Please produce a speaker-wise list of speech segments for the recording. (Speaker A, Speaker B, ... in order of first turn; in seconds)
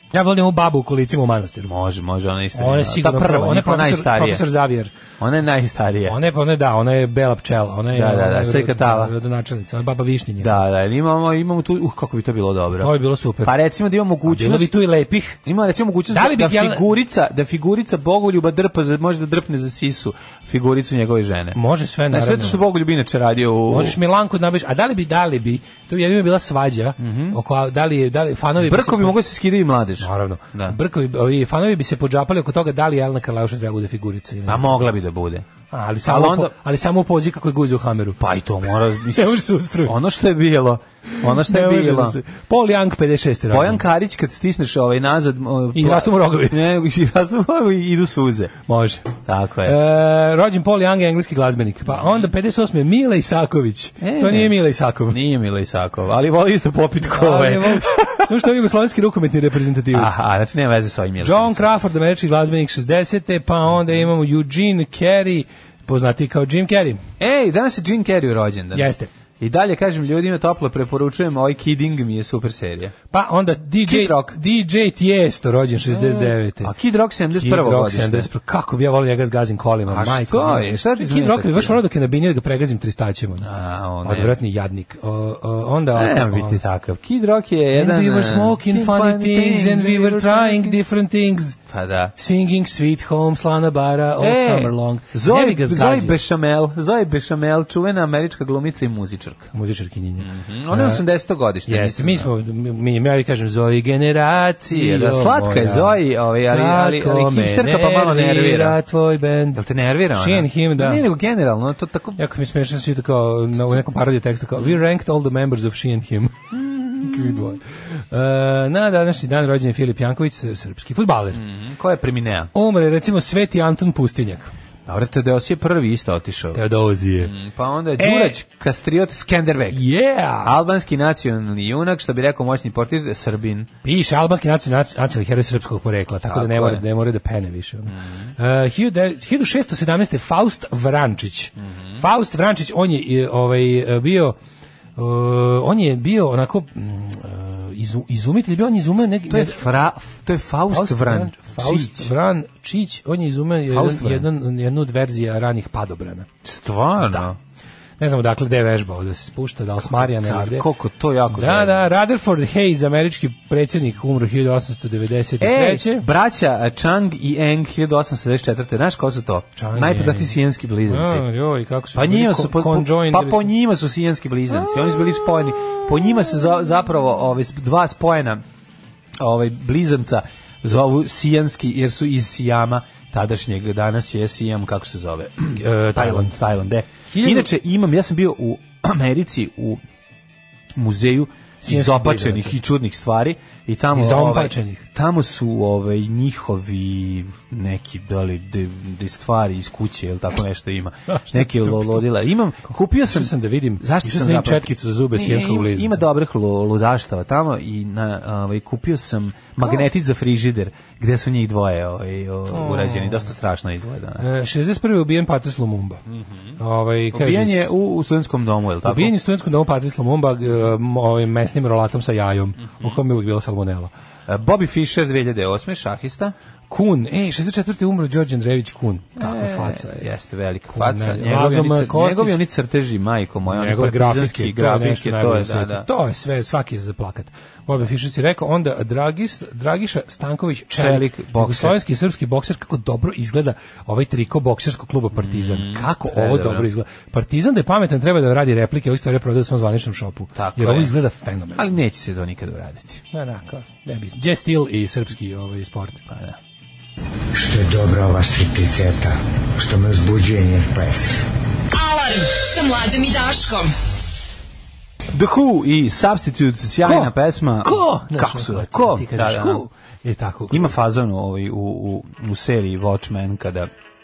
Speaker A: 0.1-1.7, 2.5-4.9, 6.1-10.6, 12.8-13.5, 14.2-15.4, 16.1-16.8, 21.5-22.6, 23.7-29.2, 30.0-34.9, 35.7-38.2, 39.0-39.9, 41.1-43.8, 45.7-46.6, 48.7-49.1, 49.6-55.2, 57.1-60.1, 61.2-67.0, 68.7-69.1, 73.1-76.7, 77.3-83.5, 84.0-86.6, 87.7-91.5, 92.2-96.2, 99.5-101.0, 101.7-106.0, 106.5-109.6, 110.1-111.0, 112.2-116.4, 117.0-121.4, 122.5-124.5, 126.5-127.3, 128.0-128.4, 129.7-130.6, 133.8-144.3, 144.9-149.6, 150.7-156.3, 157.0-157.3, 158.0-160.7, 161.3-166.0, 169.6-173.5, 185.5-186.4, 187.1-187.5, 191.6-192.6, 193.9-194.8, 201.1-202.0, 203.1-206.0, 212.5-213.3, 214.2-216.0, 216.6-217.7, 218.8-223.9, 226.7-230.1, 230.7-232.4, 233.5-251.7, 253.1-256.0, 266.8-267.1, 267.6-270.7
Speaker B: 1.6-4.4, 5.2-6.2, 7.9-9.1, 10.4-14.7, 15.4-21.6, 22.1-24.0, 27.0-27.4, 28.6-30.8, 34.5-35.5, 36.0-36.5, 38.2-42.2, 43.5-48.5, 49.2-49.8, 52.0-52.2, 54.0-54.5, 55.1-58.3, 59.9-61.7, 67.2-72.9, 73.8-74.4, 75.9-78.3, 79.9-81.8, 83.4-84.3, 85.9-90.8, 91.7-92.1, 94.2-99.5, 100.2-102.3, 104.7-108.8, 109.5-112.2, 116.5-117.5, 121.3-122.5, 124.8-126.6, 127.2-129.8, 130.4-133.7, 136.2-136.8, 137.9-138.3, 141.6-142.0, 149.3-152.1, 153.7-154.3, 156.4-157.3, 159.8-161.8, 165.4-171.2, 171.9-178.4, 179.2-189.8, 190.7-214.2, 216.1-216.5, 217.1-219.1, 222.7-223.0, 224.3-226.3, 229.2-235.9, 240.7-241.8, 245.1-246.7, 250.3-250.9, 251.5-253.0, 256.1-256.4, 265.1-269.6, 270.5-273.7
Speaker C: 257.5-259.0, 259.7-260.8
Speaker D: 261.7-263.7